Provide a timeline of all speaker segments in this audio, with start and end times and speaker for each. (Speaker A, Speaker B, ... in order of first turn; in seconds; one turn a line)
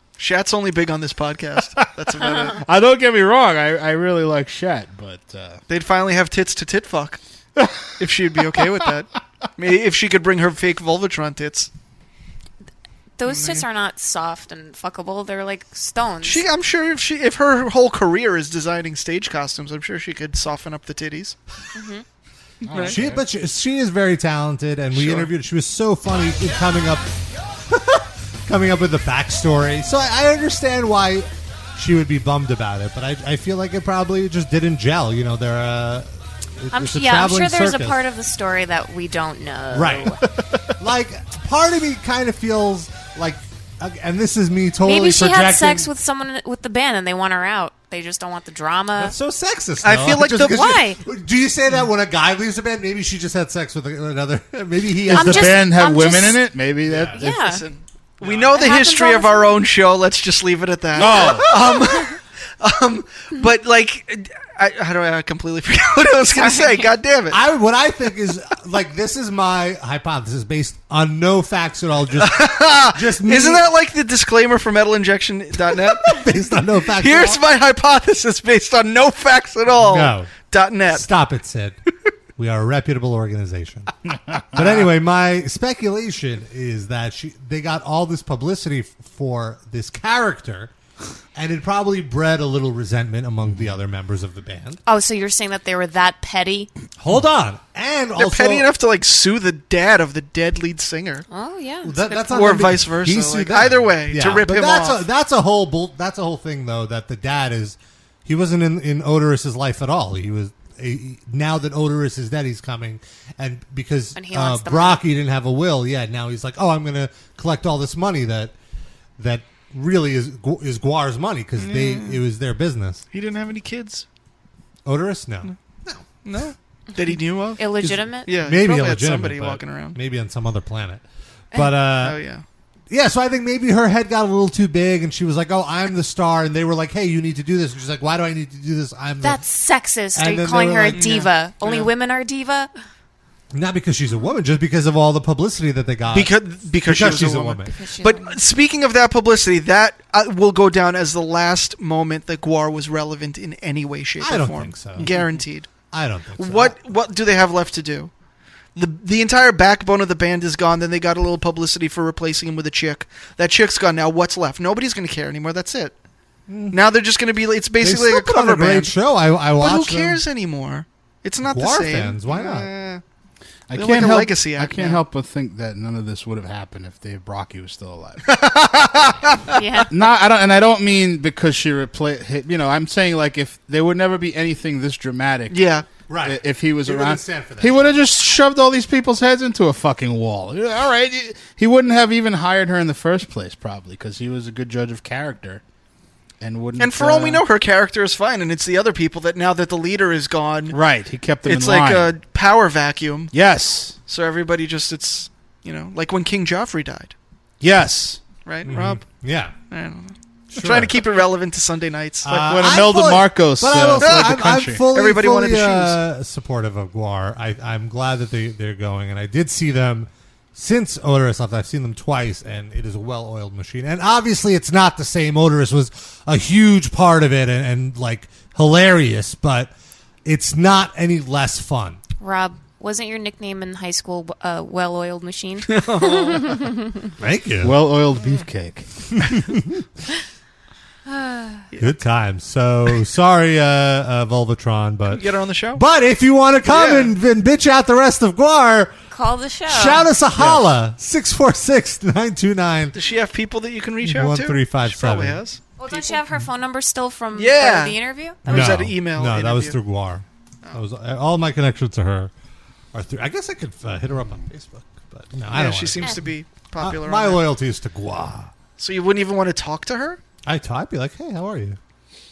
Speaker A: 0.2-2.6
Speaker B: 2.2-2.6
Speaker C: 2.6-5.6
Speaker A: 5.7-7.2
Speaker A: 8.0-11.7
Speaker B: 13.2-16.4
Speaker A: 13.3-13.6
Speaker A: 16.2-21.4
Speaker B: 21.8-22.0
Speaker C: 22.6-23.2
Speaker A: 22.7-23.0
Speaker D: 22.8-27.1
Speaker D: 27.7-38.0
Speaker B: 36.7-40.2
Speaker D: 39.7-40.2
Speaker D: 40.8-45.9
Speaker B: 44.8-49.2
Speaker D: 49.0-55.7
Speaker A: 49.8-50.7
Speaker B: 50.5-51.0
Speaker C: 55.1-57.3
Speaker B: 55.1-56.5
Speaker D: 56.9-57.2
Speaker B: 57.2-57.6
Speaker A: 57.2-67.4
Speaker B: 58.2-59.6
Speaker C: 61.0-61.5
Speaker D: 61.0-61.5
Speaker B: 66.4-66.9
Speaker D: 67.3-73.7
Speaker A: 72.2-76.2
Speaker D: 75.8-77.4
Speaker A: 77.0-81.0
Speaker D: 79.8-80.3
Speaker D: 80.9-81.8
Speaker D: 82.4-83.9
Speaker C: 84.3-84.8
Speaker D: 84.5-90.7
Speaker D: 91.3-94.8
Speaker C: 93.5-93.7
Speaker B: 94.9-96.7
Speaker D: 97.0-98.7
Speaker A: 98.2-101.3
Speaker B: 101.3-102.0
Speaker D: 101.8-118.5
Speaker A: 102.0-105.0
Speaker B: 114.2-115.0
Speaker D: 119.2-123.0
Speaker A: 121.6-122.2
Speaker A: 123.1-124.1
Speaker D: 124.8-126.0
Speaker A: 126.2-130.0
Speaker B: 127.6-128.3
Speaker D: 128.4-132.2
Speaker A: 132.0-132.4
Speaker D: 132.9-139.4
Speaker B: 139.2-142.7
Speaker D: 140.2-141.1
Speaker A: 140.9-141.9
Speaker D: 143.5-147.7
Speaker A: 146.1-155.7
Speaker B: 147.7-148.4
Speaker D: 154.2-155.1
Speaker D: 155.9-156.8
Speaker A: 156.4-158.1
Speaker A: 158.8-165.9
Speaker D: 166.5-166.8
Speaker A: 166.7-168.9
Speaker D: 167.8-170.2
Speaker A: 169.6-173.0
Speaker D: 171.4-172.7
Speaker C: 173.7-178.9
Speaker A: 173.7-175.0
Speaker B: 179.6-179.9
Speaker C: 179.9-185.6
Speaker A: 185.5-185.9
Speaker D: 186.1-187.9
Speaker C: 186.2-195.6
Speaker C: 196.4-197.4
Speaker A: 196.8-200.8
Speaker C: 200.7-202.1
Speaker A: 201.4-203.3
Speaker C: 203.3-204.0
Speaker A: 204.1-207.1
Speaker C: 207.6-208.2
Speaker A: 208.4-209.0
Speaker D: 208.6-209.5
Speaker A: 209.7-212.3
Speaker D: 210.5-210.9
Speaker D: 212.2-229.7
Speaker C: 212.3-214.9
Speaker A: 214.0-216.0
Speaker D: 230.2-232.0
Speaker B: 232.2-236.9
Speaker A: 235.7-236.6
Speaker D: 237.2-237.8
Speaker C: 237.6-239.3
Speaker D: 239.3-239.6
Speaker B: 241.1-241.7
Speaker D: 241.8-248.9
Speaker A: 245.1-245.8
Speaker A: 246.7-247.1
Speaker B: 249.1-250.1
Speaker D: 249.7-253.0
Speaker A: 252.9-256.2
Speaker D: 254.0-255.4
Speaker B: 255.8-258.7
Speaker A: 257.4-259.8
Speaker D: 258.5-262.3
Speaker D: 262.9-268.5
Speaker A: 265.5-267.4
Speaker A: 268.8-270.2
Speaker D: 270.4-271.8